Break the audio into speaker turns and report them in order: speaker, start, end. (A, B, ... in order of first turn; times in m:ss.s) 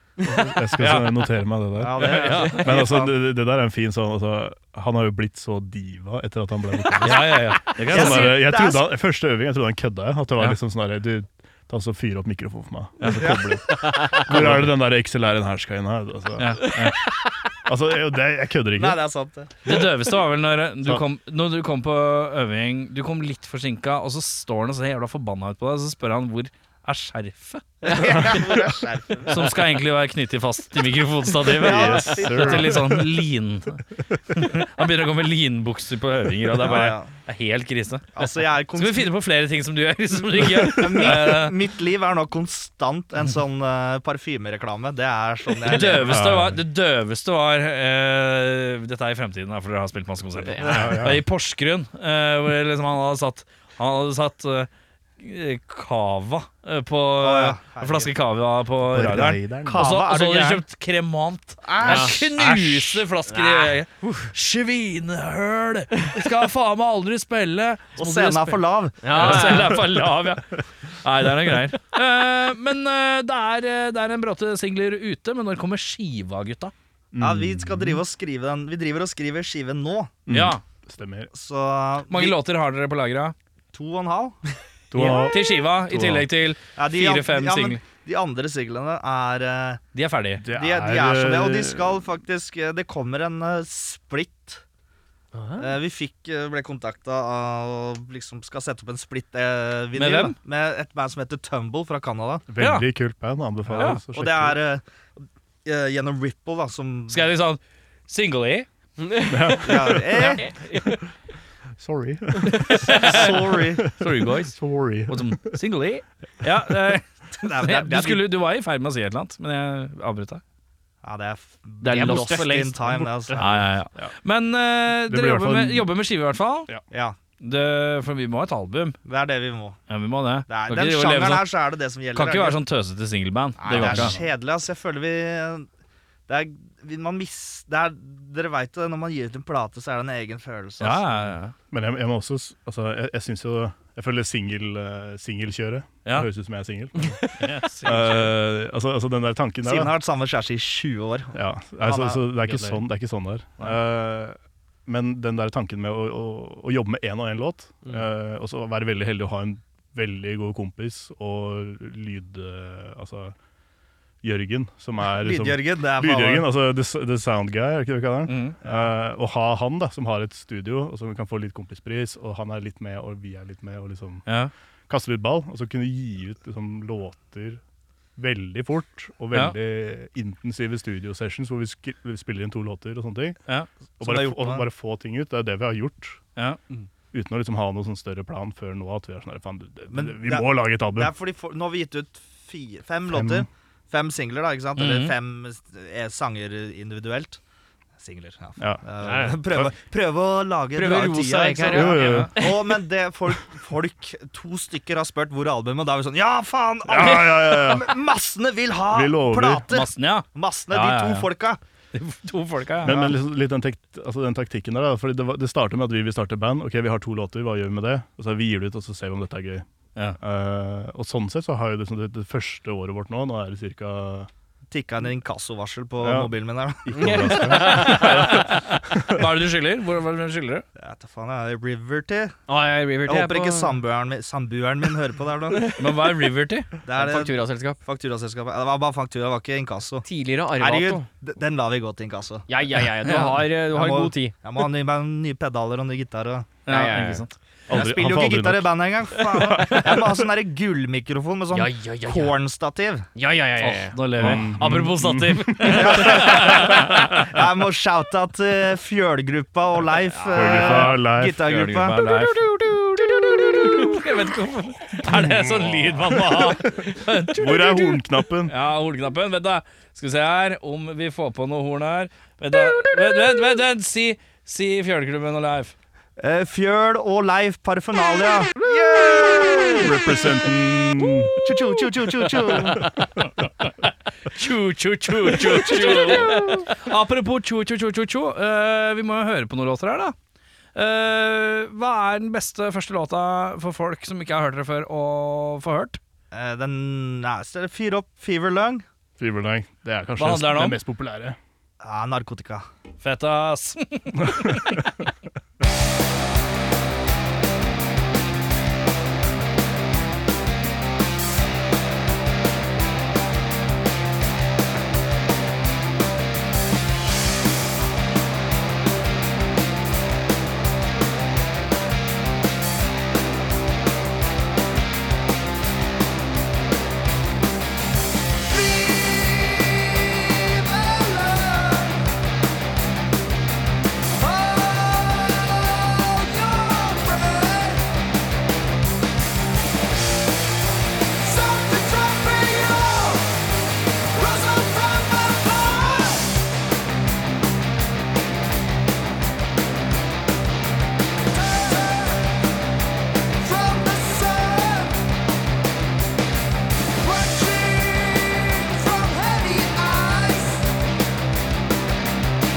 0:00.2-0:19.0 A
0:00.8-0:01.2 B
0:01.8-0:03.1 C
0:02.0-0:02.8 B
0:07.0-0:08.4 B
0:07.0-0:07.3 C
0:07.8-0:08.8 C
0:13.0-0:13.4 B
0:13.2-0:13.6 C
0:13.8-0:14.2 D
0:14.3-0:14.7 B
0:16.4-0:17.0 B
0:18.8-0:19.5 C
0:19.6-0:28.5 B
0:27.8-0:29.6 C
0:29.3-0:38.2 B
0:31.4-0:33.2 A
0:31.5-0:32.8 C
0:34.1-0:34.4 A
0:36.6-0:37.1 C
0:38.1-0:39.1 C
0:38.7-0:41.6 B
0:40.4-0:41.2 A
0:40.6-0:46.3 C
0:45.7-1:16.7 B
0:46.1-0:46.6 A
0:50.5-0:51.0 D
0:50.7-0:51.2 A
0:57.2-0:58.1 C
0:58.9-0:59.9 A
0:59.6-1:00.6 C
1:01.6-1:03.0 C
1:01.8-1:02.1 D
1:03.3-1:04.3 D
1:08.0-1:09.6 C
1:09.0-1:09.8 D
1:17.1-1:18.0 A
1:17.2-1:20.2 C
1:20.3-1:21.3 A
1:20.3-1:20.6 B
1:21.3-1:22.4 C
1:22.1-1:23.3 B
1:23.7-1:24.4 C
1:24.9-1:26.3 A
1:25.0-1:25.4 C
1:25.0-1:27.8 B
1:26.8-1:29.8 C
1:29.9-1:30.4 B
1:30.4-1:32.0 A
1:30.5-1:34.6 C
1:35.3-1:35.8 D
1:35.6-1:42.4 C
1:40.0-1:40.4 B
1:42.5-1:44.6 A
1:42.6-1:42.9 B
1:43.8-1:44.0 B
1:43.8-1:44.8 C
1:45.6-1:47.3 C
1:47.1-1:48.7 B
1:49.0-1:49.8 D
1:49.2-1:51.0 A
1:49.6-1:50.5 C
1:50.2-1:50.8 B
1:51.8-1:55.6 A
1:52.4-1:52.7 D
1:52.7-1:54.6 B
1:52.9-1:53.9 C
1:55.1-2:00.4 B
1:57.4-1:58.3 C
2:01.0-2:03.4 C
2:01.8-2:03.4 D
2:03.3-2:04.1 A
2:03.4-2:06.7 B
2:05.0-2:05.9 A
2:06.9-2:07.2 C
2:07.4-2:09.0 B
2:09.0-2:09.8 C
2:09.9-2:11.5 B
2:10.5-2:12.6 C
2:12.1-2:14.2 B
2:13.6-2:15.7 C
2:13.7-2:14.3 A
2:16.3-2:21.0 C
2:20.8-2:21.5 B
2:21.2-2:27.2 A
2:27.0-2:27.5 D
2:27.4-2:28.3 B
2:27.8-2:29.9 A
2:29.6-2:32.8 C
2:31.3-2:43.3 A
2:44.2-2:54.2 A
2:45.1-2:46.5 C
2:48.3-2:48.6 B
2:54.9-2:57.6 A
2:58.2-3:03.4 A
3:04.0-3:06.2 A
3:04.0-3:04.6 C
3:07.1-3:11.1 A
3:09.9-3:17.4 C
3:13.1-3:13.4 A
3:14.8-3:15.1 B
3:18.0-3:31.6 C
3:18.6-3:19.7 A
3:19.0-3:19.4 D
3:20.7-3:22.7 D
3:21.7-3:22.5 A
3:21.9-3:22.3 B
3:26.8-3:27.9 A
3:28.9-3:29.7 A
3:29.7-3:31.3 B
3:31.9-3:33.2 B
3:32.8-3:39.6 A
3:40.2-3:44.3 A
3:44.7-3:47.5 C
3:46.0-3:46.3 A
3:46.8-3:49.3 A
3:46.9-3:48.4 D
3:47.6-3:50.6 B
3:50.8-3:52.3 C
3:52.5-3:53.8 D
3:53.0-3:55.8 C
3:55.6-3:55.8 D
3:55.7-3:56.7 B
3:56.8-4:00.0 C
3:56.9-3:57.8 D
4:00.0-4:01.0 D
4:00.6-4:02.4 C
4:02.5-4:04.3 D
4:03.0-4:03.4 B
4:03.1-4:06.5 C
4:06.6-4:07.4 B
4:06.7-4:07.2 D
4:07.7-4:10.1 A
4:07.7-4:13.0 C
4:11.5-4:12.4 D
4:13.1-4:14.4 D
4:13.6-4:17.1 B
4:14.2-4:17.2 A
4:15.6-4:22.0 C
4:20.2-4:20.6 D
4:20.3-4:21.5 A
4:20.6-4:35.7 B
4:25.1-4:28.5 A
4:36.2-4:39.9 C
4:39.7-4:41.4 A
4:41.4-4:42.9 C
4:42.8-4:50.1 B
4:45.5-4:46.6 C
4:45.6-4:46.5 D
4:50.7-4:56.0 B
4:56.3-4:58.8 C
4:59.2-5:01.4 A
5:00.2-5:00.8 B
5:01.8-5:02.6 C
5:03.0-5:04.9 B
5:04.2-5:04.8 A
5:28.5-5:32.0 C
5:34.2-5:37.8 C
5:41.2-5:43.2 C
5:44.1-5:46.1 C
5:51.6-5:52.1 C
5:53.4-5:55.0 C
5:57.0-6:00.6 C